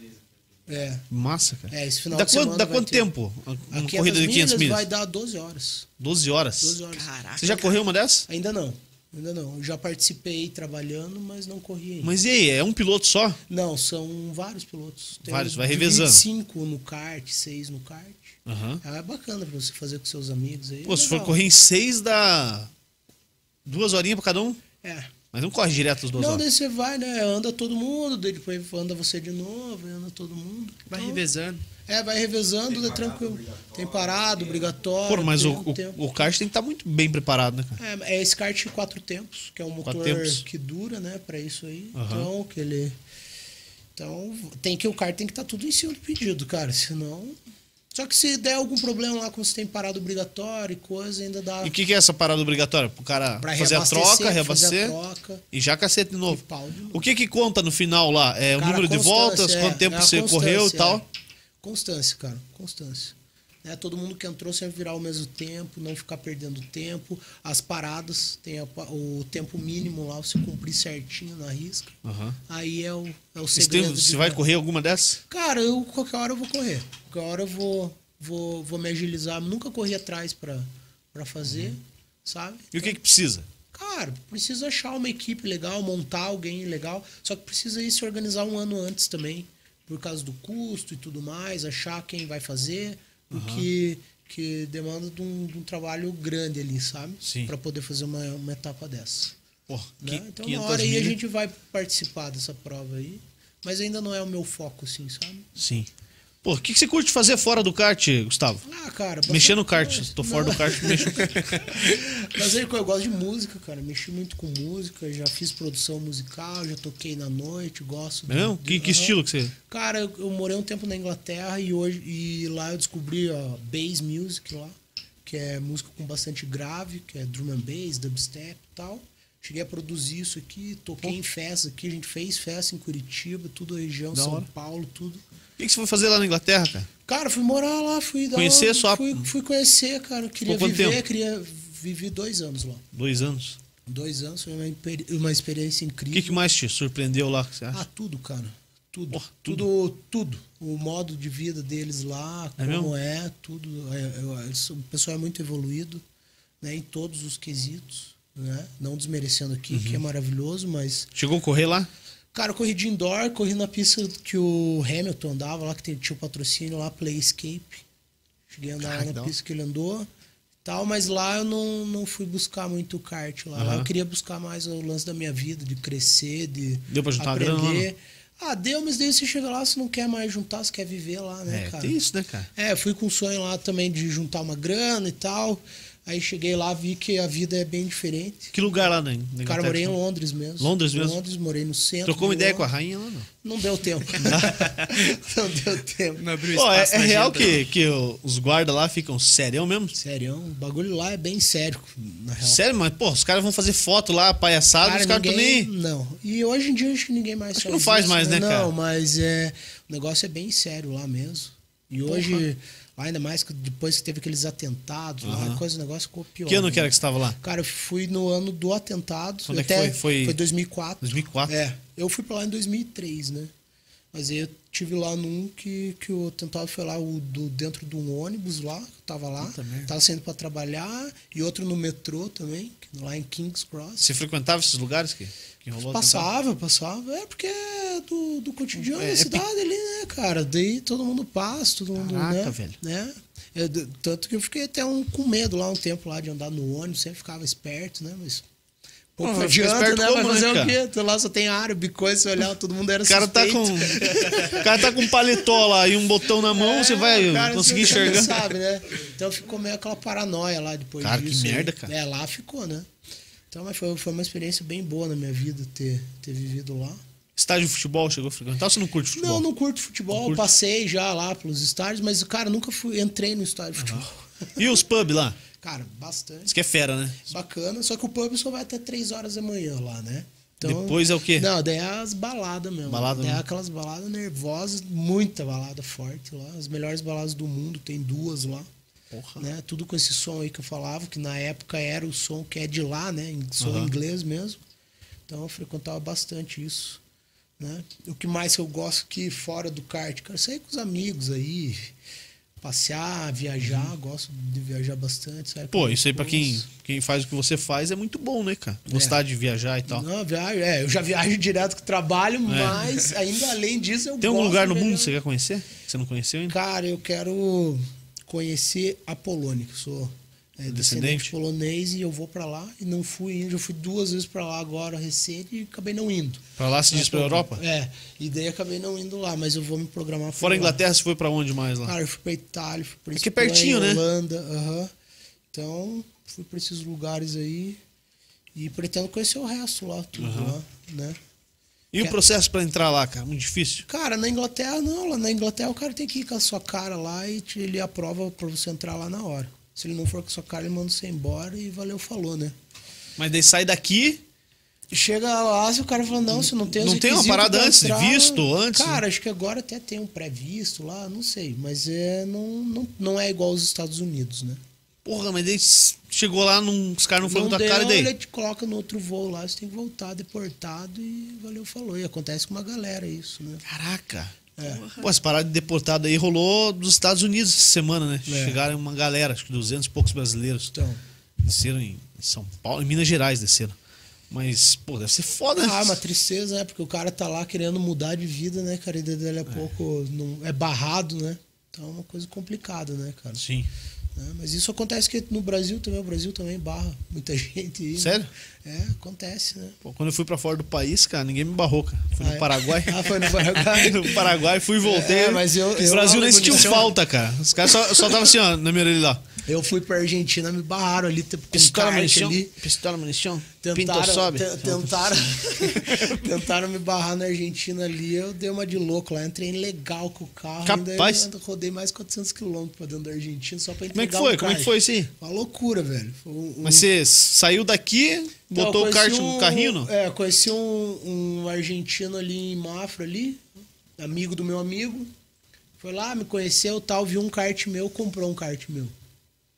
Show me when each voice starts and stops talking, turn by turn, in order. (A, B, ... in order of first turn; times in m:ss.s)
0:00.7-0:01.0 A
0:01.1-0:04.8 B
0:01.7-0:03.1 A
0:03.7-0:05.9 A
0:06.0-0:06.8 B
0:06.6-0:07.1 A
0:06.9-0:07.8 C
0:07.4-0:08.3 B
0:08.3-0:12.2 A
0:12.0-0:13.4 B
0:13.5-0:21.4 A
0:15.2-0:16.2 B
0:18.4-0:18.8 B
0:20.8-0:22.7 B
0:23.6-0:24.6 B
0:24.8-0:25.1 A
0:25.3-0:26.4 B
0:26.1-0:31.2 A
0:30.9-0:31.6 C
0:31.9-0:36.3 A
0:35.0-0:37.8 B
0:37.8-0:43.0 A
0:39.8-0:40.4 B
0:41.9-0:42.3 B
0:43.9-0:47.4 A
0:47.9-0:51.7 A
0:51.6-0:55.0 B
0:53.4-0:55.4 A
0:55.5-1:01.0 B
0:56.2-0:57.1 A
0:58.6-1:01.0 A
1:01.6-1:12.0 A
1:12.0-1:12.4 B
1:12.5-1:14.4 A
1:13.5-1:15.2 B
1:15.3-1:23.0 A
1:21.5-1:21.8 B
1:22.7-1:23.5 B
1:23.7-1:39.3 A
1:33.3-1:33.7 B
1:37.2-1:37.5 B
1:39.7-1:41.2 B
1:40.0-1:45.5 A
1:45.6-1:45.9 B
1:46.4-1:48.6 B
1:48.6-2:15.2 A
1:49.2-1:51.7 B
1:58.3-1:59.5 B
2:14.1-2:14.5 B
2:15.6-2:16.9 B
2:17.1-2:22.8 A
2:18.3-2:19.3 B
2:20.5-2:21.0 B
2:22.9-2:23.6 B
2:23.8-2:26.4 A
2:26.1-2:27.8 B
2:27.7-2:36.0 A
2:29.1-2:29.6 B
2:32.6-2:32.9 B
2:36.6-2:41.1 A
2:39.7-2:40.0 B
2:41.1-2:41.9 B
2:42.3-2:47.8 A
2:48.5-2:50.1 A
2:48.8-2:49.3 B
2:50.6-3:02.0 A
2:53.6-2:53.9 B
2:56.9-2:57.9 B
3:01.5-3:02.5 B
3:02.5-3:08.6 A
3:08.5-3:10.0 B
3:09.4-3:12.7 A
3:10.6-3:11.2 B
3:12.0-3:13.3 B
3:13.4-3:16.3 A
3:14.2-3:14.8 B
3:16.2-3:17.6 C
3:16.5-3:20.0 B
3:19.9-3:22.6 A
3:22.4-3:25.7 B
3:24.8-3:43.5 A
3:27.5-3:28.7 B
3:32.0-3:32.4 B
3:35.2-3:35.6 B
3:36.4-3:37.4 B
3:39.5-3:40.4 B
3:41.0-3:41.5 B
3:44.1-3:54.1 A
3:49.4-3:49.9 B
3:54.0-3:56.3 B
3:55.8-4:08.4 A
3:58.7-3:59.4 B
4:01.9-4:02.8 B
4:09.2-4:15.2 A
4:09.2-4:10.8 B
4:13.0-4:18.5 B
4:16.4-4:22.9 A
4:21.0-4:21.9 B
4:23.5-4:27.0 A
4:27.4-4:29.4 B
4:29.1-4:34.8 A
4:30.1-4:30.5 B
4:33.8-4:35.4 B
4:35.6-4:36.5 A
4:36.5-4:37.2 B
4:37.2-4:48.7 A
4:40.6-4:41.5 B
4:42.8-4:43.4 B
4:49.1-4:49.5 B
4:49.4-4:54.6 A
4:53.6-4:53.9 B
4:55.3-4:57.0 A
4:57.6-5:01.9 A
5:02.6-5:06.6 A
5:03.6-5:03.9 B
5:05.7-5:10.0 B
5:08.9-5:09.2 A
5:09.9-5:15.1 A
5:12.5-5:12.9 B
5:14.2-5:16.6 B
5:16.5-5:30.8 A
5:20.7-5:21.3 B
5:26.6-5:27.6 B
5:30.4-5:31.9 B
5:31.8-5:34.9 A
5:33.2-5:34.0 B
5:35.5-5:37.8 A
5:38.5-5:41.2 A
5:40.2-5:40.6 B
5:41.9-5:43.8 B
5:43.8-5:52.5 A
5:53.2-5:54.2 B
5:54.9-6:04.6 A
5:56.3-5:59.0 B
6:05.0-6:08.1 B
6:07.2-6:13.6 A
6:13.6-6:14.3 B
6:14.6-6:15.0 A
6:14.7-6:15.0 C
6:14.9-6:20.7 B
6:18.2-6:18.6 A
6:20.7-6:21.0 A
6:21.4-6:23.8 B
6:24.3-6:26.0 B
6:25.6-6:33.4 A
6:33.4-6:33.7 B
6:34.2-6:39.8 A
6:38.0-6:38.3 B
6:39.8-6:49.2 B
6:42.2-6:47.0 A
6:49.4-6:52.6 A
6:51.5-6:56.2 B
6:53.6-7:06.9 A
7:00.6-7:01.3 B
7:03.9-7:05.1 B
7:06.6-7:09.9 B
7:08.5-7:13.4 A
7:14.0-7:15.1 A
7:15.8-7:18.9 A